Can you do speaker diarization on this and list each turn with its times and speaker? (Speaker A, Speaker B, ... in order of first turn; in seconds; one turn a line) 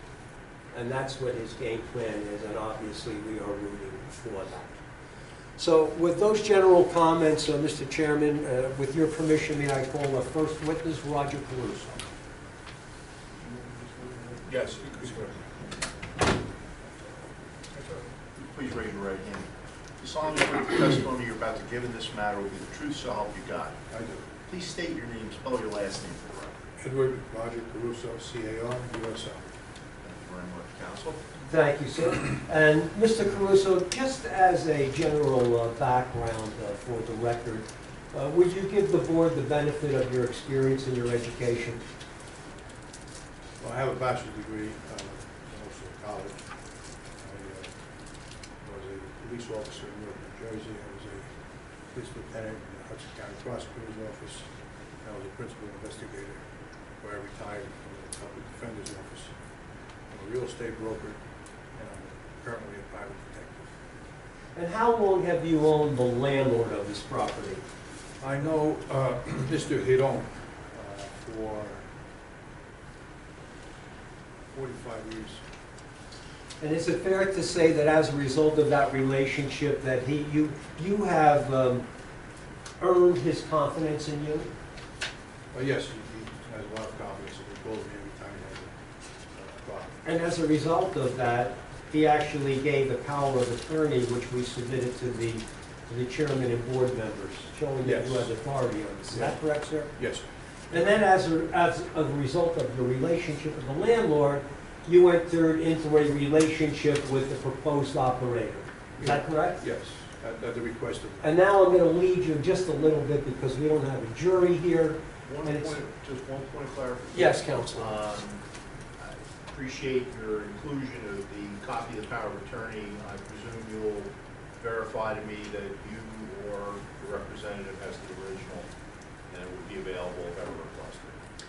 Speaker A: 0.7-4.8
Speaker A: 5.6-12.1
Speaker B: 14.5-15.3
Speaker C: 14.5-15.2
Speaker B: 18.4-23.8
Speaker C: 23.9-24.3
Speaker B: 24.5-26.6
Speaker C: 26.8-29.5
Speaker B: 30.0-31.2
Speaker A: 31.5-41.8
Speaker C: 43.6-46.4
Speaker C: 47.2-47.7
Speaker C: 48.6-51.3
Speaker C: 51.9-54.5
Speaker C: 55.0-56.4
Speaker C: 57.0-59.3
Speaker C: 60.1-61.2
Speaker C: 61.8-63.7
Speaker A: 64.5-67.6
Speaker C: 68.2-71.9
Speaker C: 74.5-75.4
Speaker A: 76.6-81.8
Speaker A: 82.8-84.5
Speaker C: 85.5-88.7
Speaker C: 89.3-90.0
Speaker A: 90.0-99.9
Speaker C: 97.8-98.3
Speaker C: 100.0-100.2
Speaker A: 100.7-109.6
Speaker C: 109.0-111.3
Speaker A: 111.2-115.8
Speaker B: 115.3-118.4
Speaker A: 117.1-117.9
Speaker B: 119.0-128.7
Speaker B: 129.3-131.2